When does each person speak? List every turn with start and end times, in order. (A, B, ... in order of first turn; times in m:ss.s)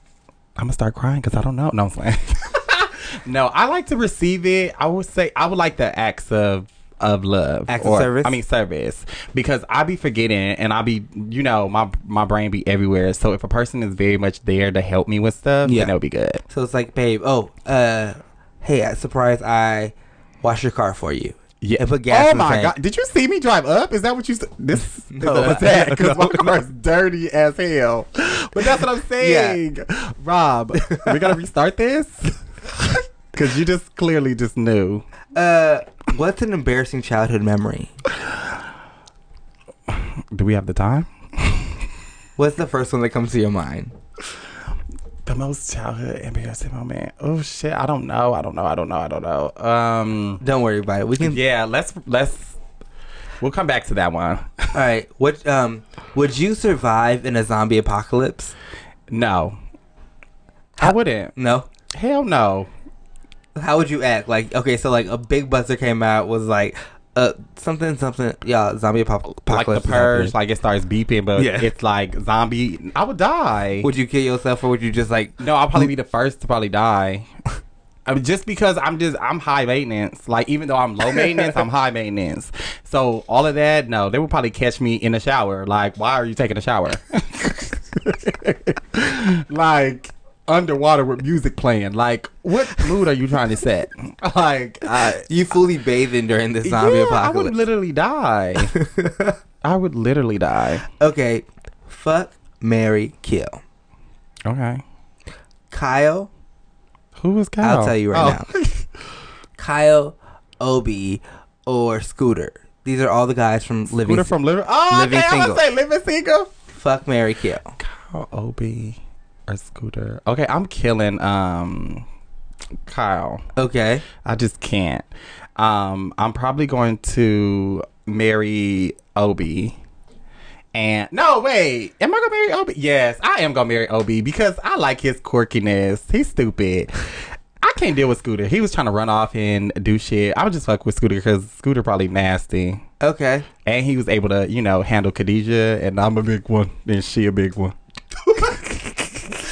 0:00.6-0:16.4 A
0:07.7-0:08.4 B
0:15.6-0:15.9 B
0:16.5-0:22.7 B
0:21.6-0:32.4 A
0:25.1-0:26.6 B
0:29.2-0:29.6 B
0:30.8-0:31.3 B
0:33.3-0:35.0 A
0:35.3-0:37.9 B
0:39.9-0:41.9 A
0:42.4-0:43.9 B
0:45.3-0:50.4 A
0:50.4-0:51.4 B
0:51.2-0:52.6 A
0:53.4-0:54.7 A
0:54.7-0:58.5 B
0:59.1-0:59.6 A
1:00.8-1:01.7 B
1:00.8-1:01.4 A
1:01.9-1:02.7 A
1:03.6-1:10.3 B
1:09.5-1:13.9 A
1:11.4-1:11.7 B
1:13.8-1:15.9 B
1:15.4-1:17.3 A
1:18.1-1:35.3 A
1:21.2-1:21.5 B
1:34.9-1:37.6 B
1:36.6-1:38.7 A
1:38.7-1:39.4 B
1:39.6-1:40.8 A
1:41.0-1:43.6 B
1:44.5-1:44.8 A
1:45.7-1:46.3 B
1:47.2-1:48.9 A
1:47.6-1:48.5 B
1:49.6-1:54.3 B
1:54.0-1:56.5 A
1:54.9-1:55.6 B
1:56.7-1:57.8 B
1:57.8-2:02.0 A
2:02.9-2:03.4 A
2:03.6-2:04.0 B
2:04.2-2:05.1 A
2:05.6-2:09.8 A
2:10.7-2:22.8 A
2:23.0-2:23.5 B
2:23.6-2:27.8 A
2:28.3-2:29.3 A